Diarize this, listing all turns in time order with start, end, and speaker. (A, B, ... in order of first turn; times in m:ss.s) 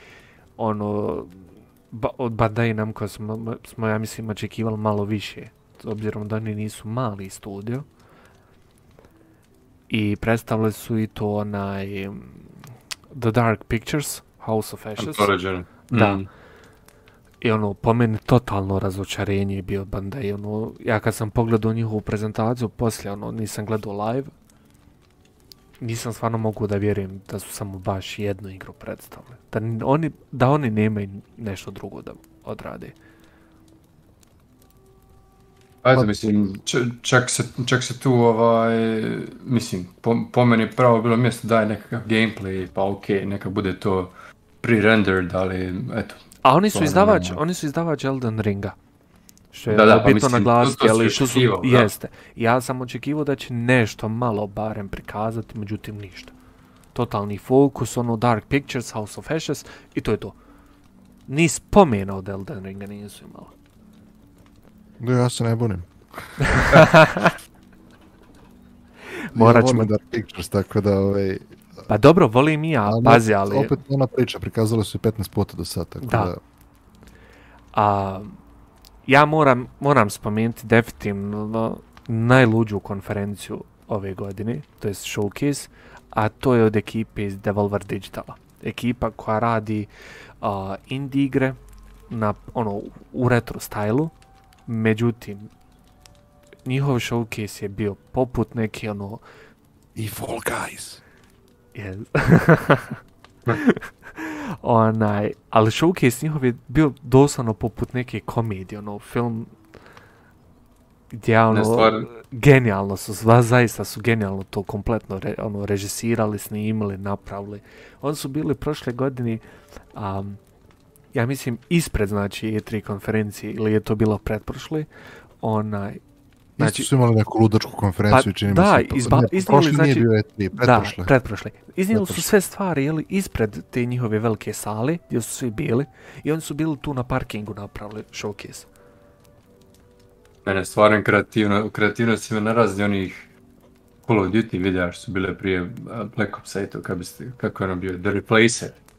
0:00.6-0:07.8 A
0:09.9-0:12.5 A
0:13.1-0:15.3 A
0:15.0-0:16.3 B
0:15.9-0:16.2 A
0:17.4-0:24.3 A
0:25.8-0:32.9 A
0:35.8-0:46.2 B
0:46.4-0:48.7 A
0:46.7-0:47.4 B
0:49.5-0:56.3 A
0:49.7-0:51.9 B
0:56.9-1:00.4 A
1:01.3-1:03.5 A
1:05.0-1:06.6 C
1:06.6-1:07.3 A
1:09.3-1:09.9 A
1:09.3-1:11.5 C
1:11.9-1:13.7 A
1:12.9-1:16.4 C
1:16.0-1:16.3 A
1:17.7-1:18.4 A
1:19.0-1:29.9 A
1:30.4-1:34.1 A
1:34.7-1:35.5 A
1:36.6-1:39.2 A
1:39.9-1:41.0 C
1:41.7-1:43.0 A
1:43.5-1:49.5 A
1:51.1-1:59.4 A
1:51.5-1:52.1 B
1:59.9-2:00.4 A
2:01.1-2:04.9 A
2:05.4-2:06.0 A
2:06.6-2:11.1 C
2:06.6-2:06.9 A
2:08.1-2:18.7 A
2:11.9-2:12.3 C
2:20.4-2:23.2 B
2:24.0-2:28.8 B